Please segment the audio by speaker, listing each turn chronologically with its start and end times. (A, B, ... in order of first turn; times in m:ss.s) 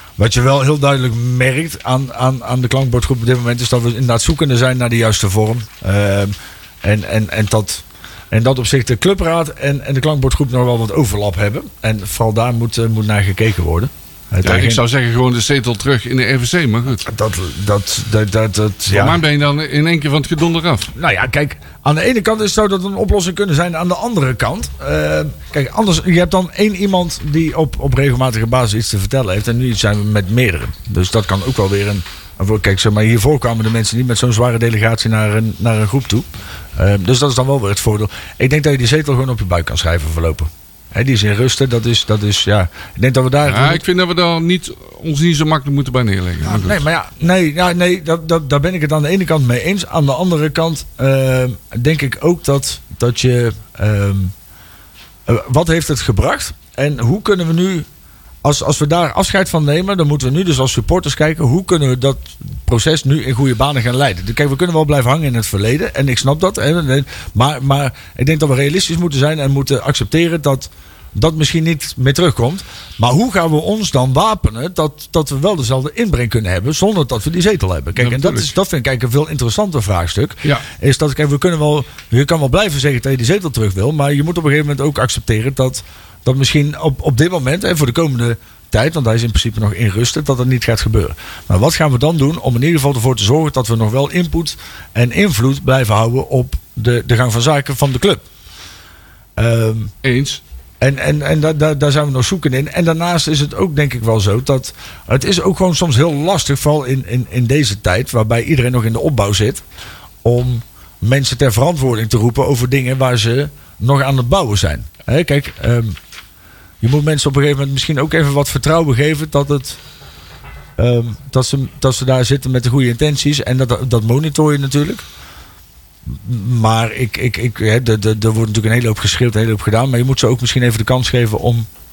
0:00.2-0:14.8 A
0:14.4-0:17.0 B
0:17.0-0:19.2 A
0:18.9-0:20.9 B
0:20.9-0:43.8 A
0:43.4-0:46.8 B
0:46.4-0:54.3 A
0:55.3-0:57.9 A
0:58.4-1:38.2 A
1:18.0-1:18.5 B
1:39.4-1:39.9 A
1:40.0-1:40.4 B
1:40.8-1:49.6 A
1:50.2-1:56.0 A
1:56.8-1:59.8 A
2:00.8-2:05.0 A
2:06.1-2:11.7 A